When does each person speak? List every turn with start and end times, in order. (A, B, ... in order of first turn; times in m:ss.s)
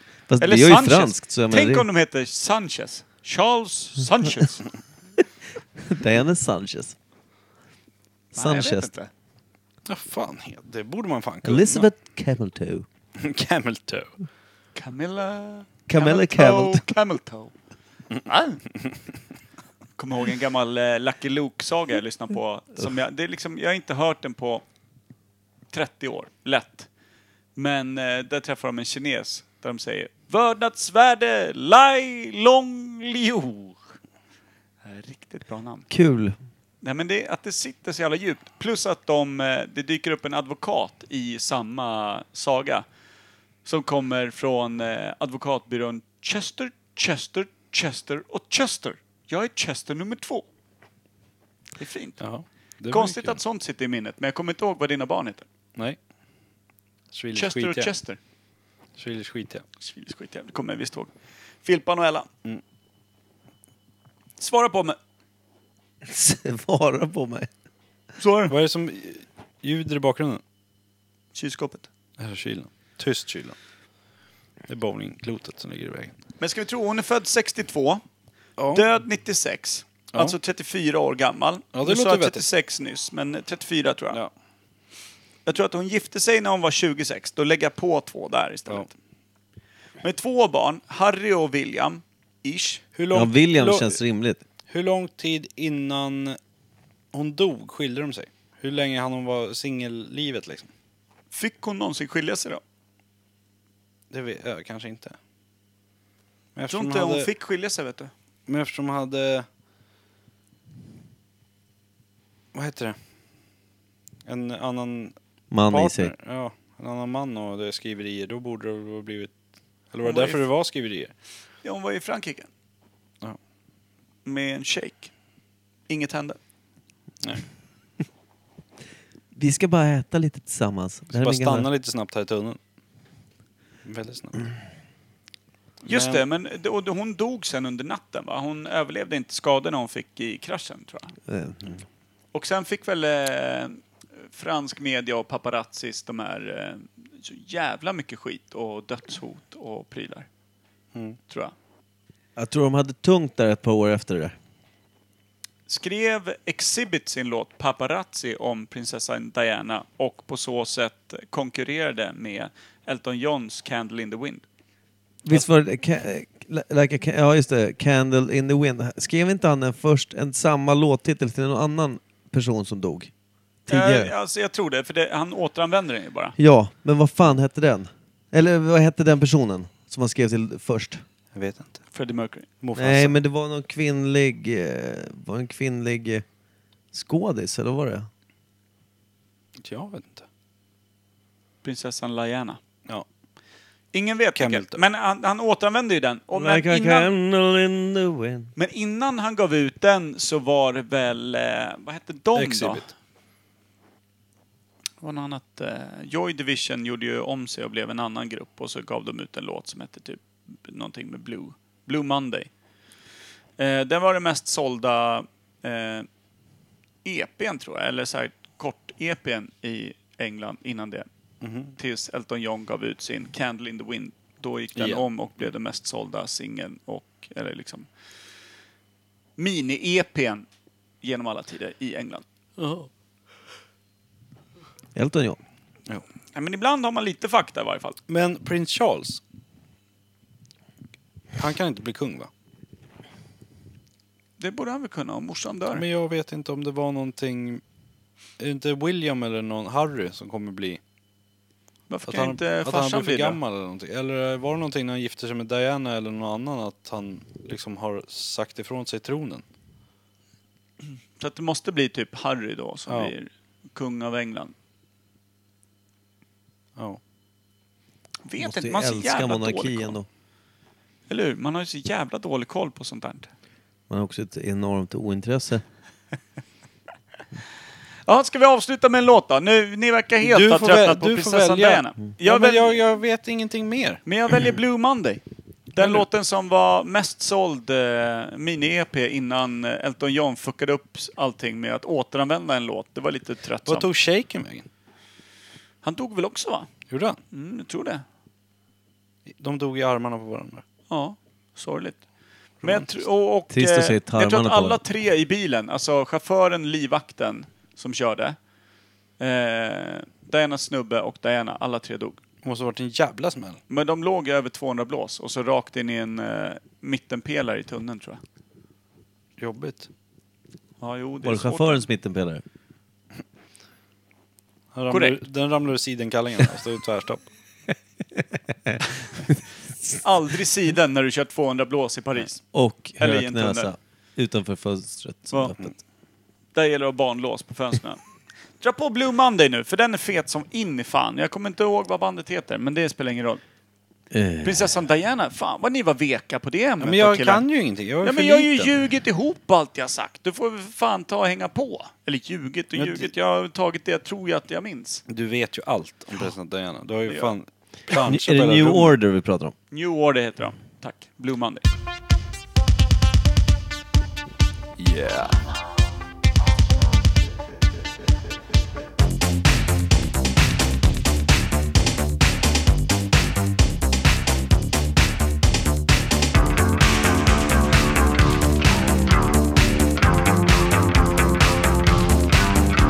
0:00.3-0:01.8 A
0:00.4-0:04.7 B
0:05.8-0:06.9 A
0:08.3-0:08.9 A
0:08.4-0:09.1 B
0:09.9-0:11.9 C
0:11.4-0:12.8 A
0:13.2-0:14.1 C
0:14.7-0:17.5 B
0:15.9-0:16.8 A
0:18.2-0:18.6 B
0:20.0-0:24.6 B
0:25.7-0:26.9 B
0:27.6-0:33.9 B
0:34.8-0:35.9 B
0:35.9-0:36.4 A
0:36.8-0:42.8 B
0:43.6-0:50.4 B
0:51.8-0:52.2 B
0:52.2-0:53.4 C
0:52.9-0:55.4 B
0:57.1-0:57.9 C
0:57.3-0:58.2 B
0:59.0-0:59.6 C
0:59.8-1:01.1 B
1:01.6-1:02.3 B
1:04.4-1:05.0 B
1:06.0-1:07.5 A
1:08.2-1:08.5 B
1:08.5-1:10.4 C
1:11.3-1:11.9 B
1:12.2-1:13.6 C
1:14.7-1:16.1 C
1:16.4-1:18.0 B
1:18.6-1:18.8 C
1:18.7-1:24.2 B
1:21.7-1:22.4 C
1:25.4-1:28.9 B
1:30.0-1:32.8 B
1:32.9-1:34.0 C
1:33.1-1:34.4 A
1:34.7-1:36.4 C
1:37.1-1:40.7 C
1:41.3-1:42.6 B
1:44.1-1:45.2 C
1:46.5-1:47.3 C
1:46.7-1:48.1 B
1:48.5-1:49.4 C
1:52.5-1:53.0 C
1:54.2-1:55.2 C
1:55.5-1:56.1 A
1:55.7-1:59.3 C
1:59.9-2:01.1 C
2:00.0-2:00.4 B
2:01.6-2:02.5 B
2:04.2-2:05.1 B
2:05.9-2:06.4 B
2:09.3-2:11.7 A
2:11.1-2:12.6 C
2:13.8-2:14.5 C
2:15.8-2:21.1 B
2:15.9-2:16.2 C
2:21.3-2:21.7 A
2:22.3-2:30.3 B
2:30.9-2:31.2 C
2:32.4-2:34.3 A
2:35.7-2:44.4 B
2:45.2-2:53.1 A
2:53.6-2:54.1 A
2:53.7-2:56.4 B
2:56.4-3:01.0 A
3:01.3-3:01.8 C
3:01.9-3:02.5 B
3:02.6-3:03.2 C
3:02.7-3:06.2 A
3:06.9-3:08.1 A
3:09.6-3:10.2 C
3:11.6-3:12.6 B
3:13.9-3:17.1 B
3:14.3-3:14.8 C
3:16.3-3:18.5 A
3:18.6-3:22.8 B
3:22.3-3:22.9 C
3:25.0-3:32.5 B
3:33.6-3:36.1 B
3:37.0-3:41.1 B
3:41.4-3:41.7 C
3:41.8-3:47.8 B
3:44.8-3:45.1 C
3:49.4-3:50.4 B
3:51.0-3:52.2 B
3:52.6-3:52.9 C
3:55.0-3:55.4 A
3:56.3-3:58.0 B
3:58.1-3:59.2 C
4:01.4-4:02.3 C
4:04.4-4:05.8 B
4:05.7-4:07.6 C
4:08.4-4:10.8 C
4:11.9-4:13.4 B
4:12.1-4:19.4 C
4:20.8-4:24.5 B
4:22.9-4:23.1 C
4:28.2-4:29.9 B
4:28.4-4:30.1 A
4:31.1-4:33.3 B
4:33.9-4:35.6 A
4:38.1-4:42.8 B
4:40.2-4:44.0 C
4:44.0-4:53.9 B
4:45.8-4:46.0 C
4:53.6-4:54.7 C
4:55.8-4:56.7 B
4:56.9-4:57.2 C
4:57.3-4:58.0 B
4:59.2-5:00.6 C
5:00.9-5:02.0 B
5:02.6-5:08.4 B
5:02.6-5:02.9 C
5:03.5-5:04.8 A
5:09.2-5:12.2 B
5:12.4-5:13.6 C
5:13.7-5:18.2 B
5:19.4-5:19.9 C
5:20.8-5:21.8 B
5:21.2-5:22.4 A
5:24.7-5:27.2 C
5:24.9-5:25.2 B
5:30.0-5:32.4 B
5:32.5-5:35.6 A
5:33.0-5:33.7 B
5:35.3-5:35.6 B
5:36.5-5:38.0 B
5:38.6-5:43.4 B
5:44.1-5:44.6 A
5:44.4-5:47.4 B
5:46.8-5:48.7 C
5:48.0-5:55.0 B
5:52.7-5:53.1 C
5:55.1-5:58.9 C
5:57.0-5:57.3 B
5:57.9-5:59.5 A
5:59.7-6:01.6 B
6:04.8-6:05.4 C